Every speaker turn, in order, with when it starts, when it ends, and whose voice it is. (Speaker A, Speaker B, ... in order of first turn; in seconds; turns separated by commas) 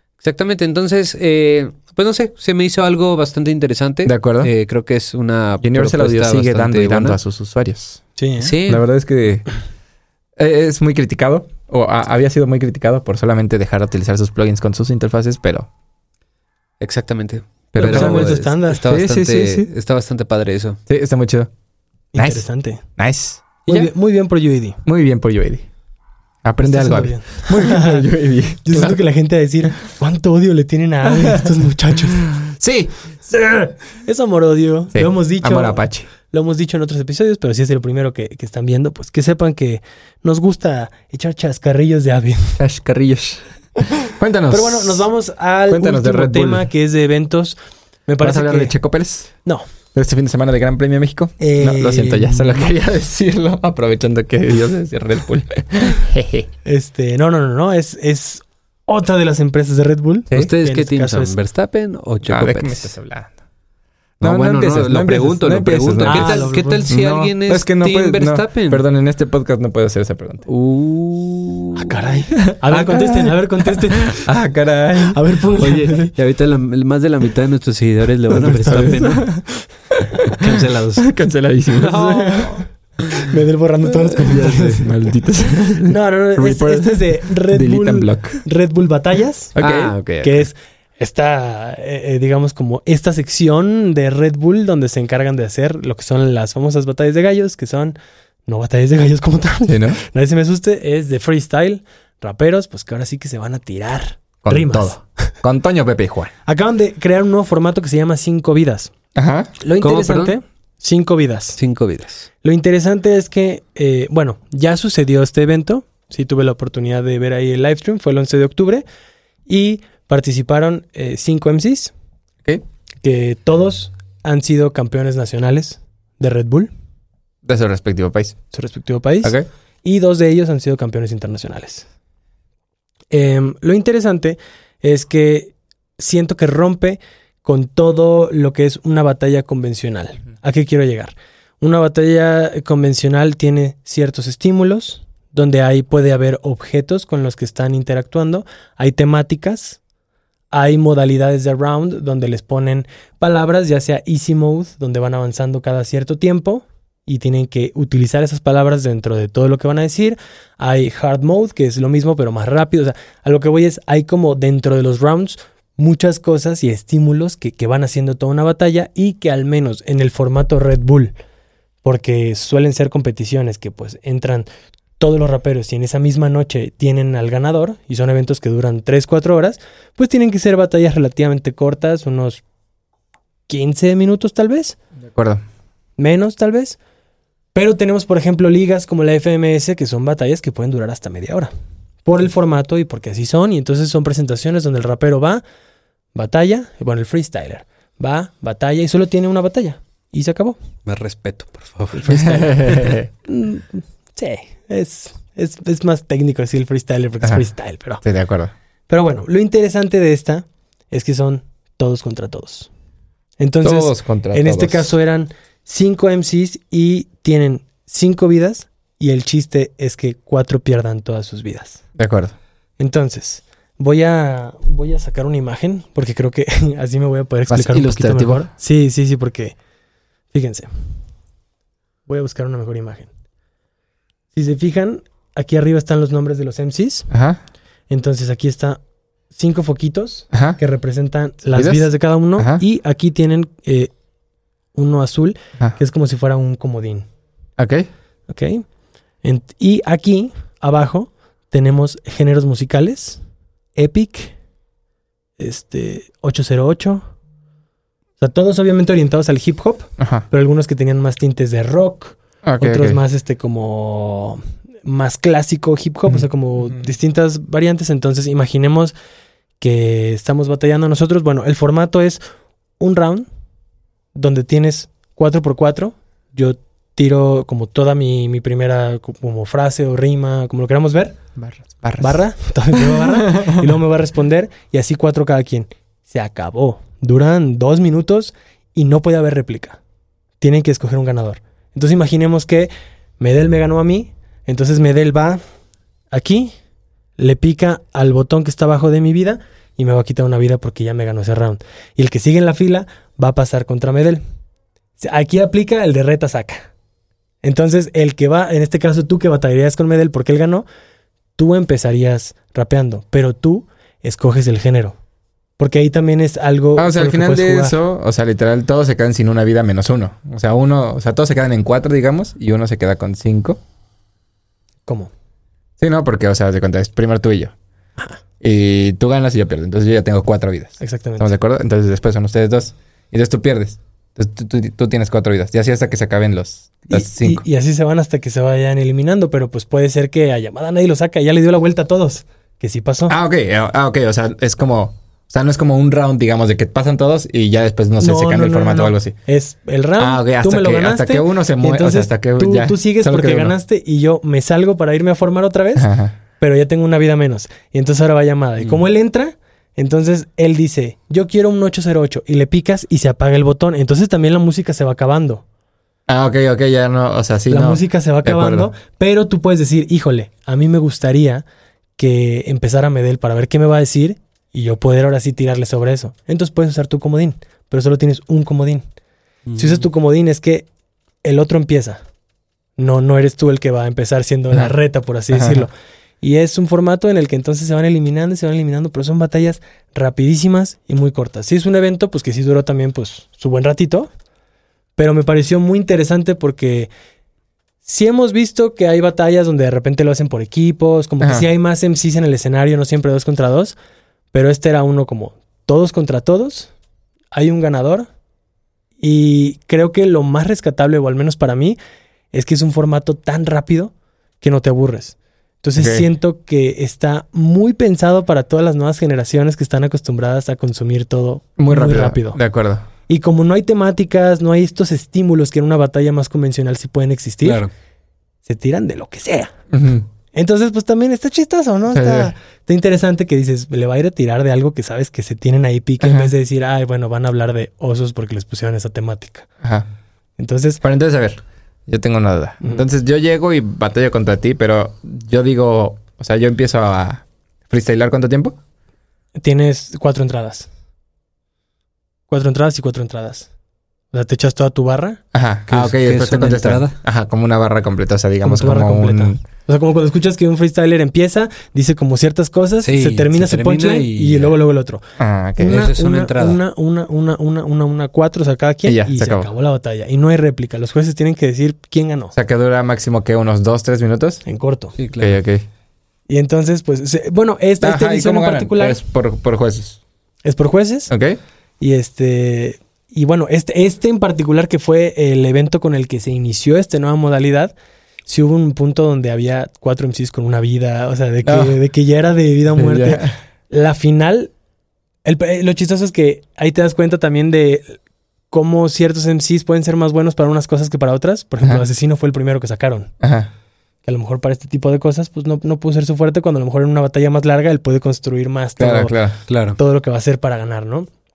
Speaker A: 0.2-7.2, Speaker B: 4.0-4.5, Speaker B: 5.6-8.0, Speaker C: 8.2-8.5, Speaker A: 8.4-8.8, Speaker B: 8.7-9.5, Speaker B: 10.4-15.7, Speaker A: 16.8-20.8, Speaker B: 17.7-19.7, Speaker C: 17.8-18.8, Speaker B: 20.9-21.5, Speaker C: 22.1-22.8, Speaker B: 22.1-22.4, Speaker B: 23.0-23.9, Speaker C: 23.6-24.8, Speaker B: 24.9-25.6, Speaker B: 26.4-29.0, Speaker C: 26.6-28.1, Speaker C: 28.6-32.4, Speaker B: 31.1-31.5, Speaker B: 32.2-33.7, Speaker C: 33.9-42.6, Speaker B: 34.9-36.1, Speaker B: 42.6-45.0, Speaker C: 44.5-47.6, Speaker B: 45.7-46.7, Speaker C: 48.1-48.7, Speaker B: 48.2-49.3, Speaker B: 50.0-56.5, Speaker C: 51.4-52.7, Speaker C: 56.6-61.4, Speaker A: 60.3-63.0, Speaker B: 62.3-63.3, Speaker A: 64.2-68.8, Speaker B: 64.2-70.5, Speaker C: 66.0-66.9, Speaker A: 70.5-71.9, Speaker C: 71.8-74.3, Speaker B: 72.4-75.2, Speaker C: 74.9-76.1, Speaker A: 75.6-79.3, Speaker B: 78.3-82.6, Speaker A: 80.4-81.1, Speaker A: 81.8-82.5, Speaker C: 81.8-85.2, Speaker B: 84.1-88.4, Speaker C: 85.8-89.6, Speaker B: 89.6-89.9, Speaker A: 89.6-90.5, Speaker C: 90.2-97.9, Speaker C: 98.5-105.3, Speaker B: 99.7-100.0, Speaker B: 104.4-106.3, Speaker C: 106.5-108.9, Speaker B: 109.1-109.5, Speaker C: 109.6-111.6, Speaker A: 109.8-110.4, Speaker A: 111.6-112.3, Speaker C: 112.4-118.8, Speaker C: 119.5-121.9, Speaker C: 123.0-126.7, Speaker B: 127.4-128.4, Speaker C: 128.5-131.9, Speaker C: 133.1-149.8, Speaker C: 150.5-171.2, Speaker C: 171.8-174.5, Speaker C: 175.0-182.4, Speaker C: 183.5-184.8, Speaker B: 185.0-185.4, Speaker C: 186.0-186.8, Speaker C: 187.6-191.5, Speaker C: 192.1-195.4, Speaker C: 196.1-200.6, Speaker A: 200.9-202.4, Speaker C: 201.9-208.0, Speaker B: 202.1-203.1, Speaker B: 208.0-208.5, Speaker C: 208.9-212.7, Speaker C: 213.4-221.8, Speaker B: 213.6-214.9, Speaker B: 221.9-222.3, Speaker C: 222.8-229.6, Speaker B: 227.5-228.4, Speaker C: 230.3-230.7, Speaker C: 232.1-233.1, Speaker C: 234.3-237.1, Speaker B: 237.1-237.4, Speaker C: 237.9-238.8, Speaker C: 239.3-243.9, Speaker B: 240.3-240.6, Speaker B: 241.5-241.8, Speaker B: 242.4-242.6, Speaker C: 244.8-247.1, Speaker B: 247.6-247.9, Speaker C: 248.3-248.6, Speaker C: 249.2-253.2, Speaker C: 253.8-254.3, Speaker C: 255.4-257.1, Speaker C: 258.2-268.9, Speaker B: 260.0-260.3, Speaker B: 262.4-263.0, Speaker C: 269.6-272.2, Speaker C: 272.8-273.3, Speaker C: 274.1-281.2, Speaker B: 281.4-282.2, Speaker C: 282.0-289.8, Speaker B: 282.8-283.6, Speaker C: 290.4-295.4, Speaker C: 296.1-296.5, Speaker C: 297.2-304.2, Speaker C: 305.0-306.7, Speaker C: 307.4-310.6, Speaker C: 311.4-315.0, Speaker C: 315.6-317.8, Speaker B: 316.8-323.6, Speaker B: 325.8-327.6, Speaker B: 328.4-337.4, Speaker C: 330.8-331.3, Speaker C: 336.9-343.2, Speaker B: 343.1-349.1, Speaker C: 348.0-355.9, Speaker B: 350.0-353.6, Speaker B: 355.8-356.1, Speaker C: 356.4-365.4, Speaker B: 366.1-368.7, Speaker C: 367.5-371.4, Speaker C: 372.0-378.9, Speaker A: 379.5-379.9, Speaker C: 379.6-380.7, Speaker C: 381.2-382.0, Speaker C: 382.8-385.7, Speaker B: 385.3-385.7, Speaker C: 386.2-394.1, Speaker C: 394.9-396.9, Speaker C: 397.9-403.8, Speaker B: 401.2-401.5, Speaker C: 404.3-406.7, Speaker C: 407.3-408.1, Speaker C: 409.0-411.8, Speaker C: 412.3-422.4, Speaker B: 415.8-416.1, Speaker B: 421.6-422.9, Speaker C: 423.1-427.6, Speaker A: 427.4-427.7, Speaker C: 428.4-429.5, Speaker B: 429.7-430.1, Speaker C: 430.3-439.5, Speaker B: 431.9-432.3, Speaker B: 436.0-436.3, Speaker C: 440.4-440.8, Speaker B: 440.8-448.6, Speaker C: 449.4-450.7, Speaker C: 452.3-453.5, Speaker C: 454.1-455.2, Speaker B: 455.3-459.4, Speaker A: 455.7-457.0, Speaker C: 458.4-465.0, Speaker A: 462.8-464.6, Speaker B: 465.2-465.9, Speaker C: 465.6-472.4, Speaker A: 465.6-466.6, Speaker B: 468.9-469.5, Speaker B: 472.3-474.4, Speaker C: 474.4-474.9, Speaker A: 475.0-475.4, Speaker B: 475.2-475.6, Speaker C: 476.3-479.0, Speaker B: 477.8-480.0, Speaker C: 480.4-481.1, Speaker B: 481.1-481.4, Speaker C: 481.8-487.7, Speaker C: 488.3-494.5, Speaker B: 491.4-491.8, Speaker B: 492.7-493.4, Speaker C: 495.2-498.0, Speaker C: 498.5-503.1, Speaker B: 503.2-503.5, Speaker C: 504.1-509.2, Speaker B: 508.8-509.4, Speaker A: 509.5-509.8, Speaker C: 509.8-511.1